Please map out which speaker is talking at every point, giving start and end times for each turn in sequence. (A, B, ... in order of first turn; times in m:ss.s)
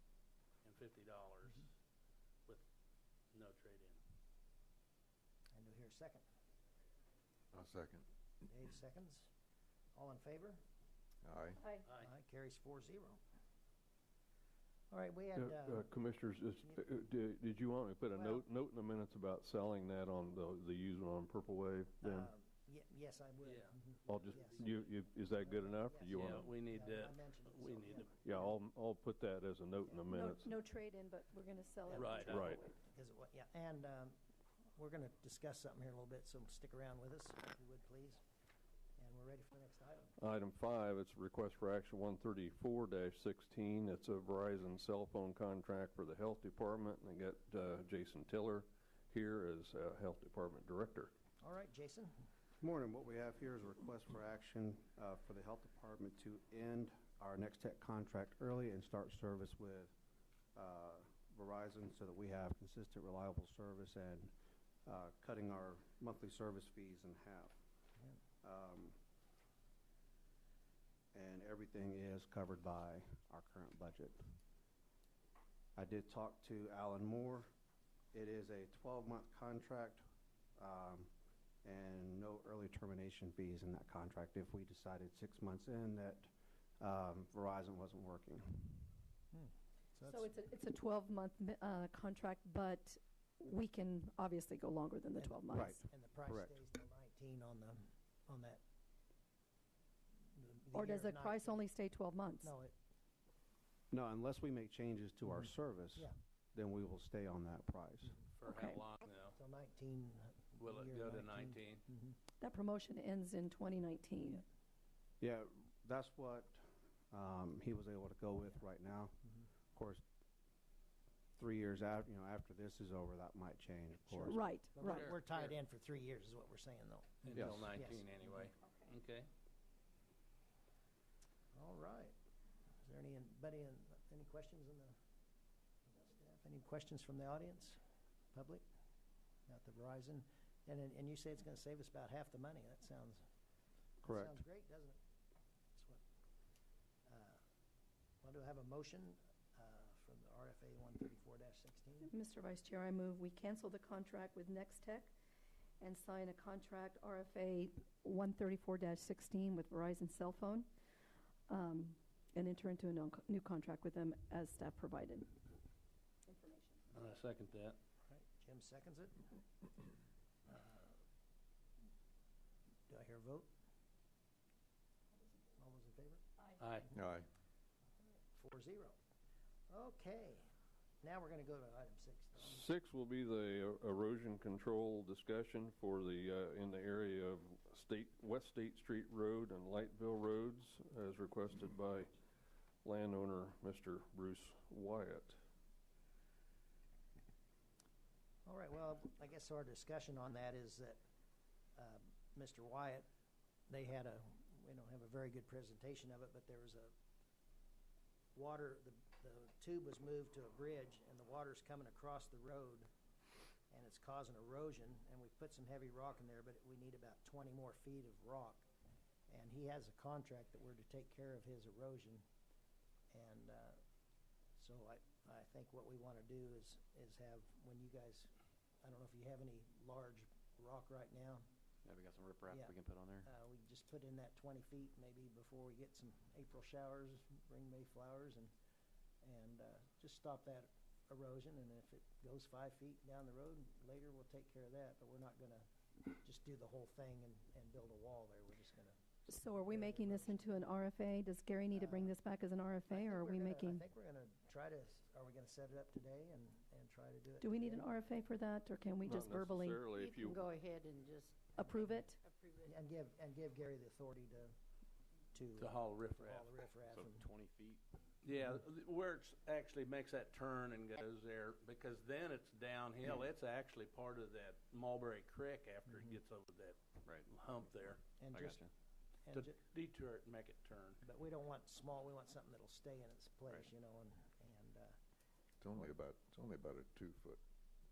0:00.6-0:01.7 A
0:03.3-0:04.0 A
0:05.5-0:06.2 B
0:07.5-0:08.0 C
0:08.4-0:09.3 B
0:09.9-0:10.6 B
0:11.2-0:11.6 C
0:11.6-0:11.9 D
0:11.8-0:12.1 A
0:12.0-0:13.2 B
0:14.9-0:15.9 B
0:15.4-0:22.3 E
0:18.1-0:18.4 B
0:22.0-0:24.7 B
0:23.4-0:24.8 A
0:24.1-0:26.5 E
0:25.3-0:28.6 B
0:26.1-0:28.1 A
0:28.2-0:30.5 E
0:30.1-0:32.7 D
0:31.9-0:34.2 B
0:31.9-0:32.5 A
0:32.2-0:32.6 E
0:34.8-0:38.2 B
0:39.0-0:40.1 B
0:40.2-0:51.1 E
0:51.4-0:52.1 B
0:52.6-0:59.9 F
1:00.5-1:04.3 F
1:04.8-1:07.6 F
1:08.4-1:09.0 F
1:11.1-1:14.2 F
1:15.8-1:17.5 F
1:18.1-1:20.0 F
1:20.6-1:21.1 F
1:21.6-1:28.9 F
1:29.3-1:30.3 B
1:30.0-1:35.8 D
1:35.2-1:38.6 B
1:35.5-1:36.5 F
1:40.3-1:41.7 B
1:40.7-1:42.5 D
1:42.4-1:42.7 B
1:43.9-1:48.1 F
1:48.4-1:49.4 A
1:48.4-1:48.8 D
1:49.4-1:52.2 B
1:50.6-1:51.8 A
1:52.4-1:54.4 D
1:55.2-1:59.2 F
1:59.7-2:00.0 F
2:01.4-2:04.4 F
2:04.1-2:08.1 B
2:04.2-2:05.1 D
2:04.8-2:05.5 A
2:07.2-2:09.3 A
2:11.5-2:12.1 B
2:12.8-2:15.0 B
2:15.9-2:17.8 B
2:18.3-2:18.6 B
2:19.5-2:23.2 B
2:24.0-2:25.0 B
2:24.0-2:24.4 F
2:25.8-2:26.0 B
2:27.1-2:27.4 B
2:28.2-2:32.1 B
2:32.0-2:35.1 D
2:35.8-2:40.7 D
2:41.5-2:45.4 D
2:46.3-2:46.8 D
2:46.9-2:47.8 A
2:48.1-2:49.3 B
2:50.5-2:51.0 B
2:52.9-2:53.5 B
2:55.6-2:56.2 B
2:56.6-2:56.9 A
2:56.9-2:57.3 C
2:58.3-2:59.0 B
2:59.7-3:00.5 B
3:01.0-3:02.7 B
3:02.4-3:12.1 E
3:12.8-3:15.4 E
3:18.4-3:21.0 B
3:21.8-3:23.0 B
3:23.7-3:26.9 B
3:28.3-3:32.9 B
3:33.7-3:38.6 B
3:39.3-3:42.2 B
3:43.1-3:43.8 B
3:44.6-3:48.3 B
3:48.8-3:51.4 B
3:51.8-3:53.3 G
3:52.5-3:58.5 B
3:59.2-4:10.8 B
4:09.3-4:13.8 D
4:11.7-4:12.2 B
4:12.9-4:18.0 B
4:17.4-4:19.9 D
4:19.0-4:20.4 E
4:19.9-4:22.6 H
4:21.5-4:22.2 D
4:22.6-4:24.6 B
4:25.3-4:27.3 B
4:25.6-4:26.5 A
4:26.8-4:27.8 G
4:28.2-4:38.0 A
4:35.9-4:36.2 B
4:38.2-4:38.6 B
4:38.3-4:38.7 G
4:39.2-4:39.5 B
4:39.3-4:41.0 A
4:41.0-4:45.0 B
4:45.6-4:47.4 C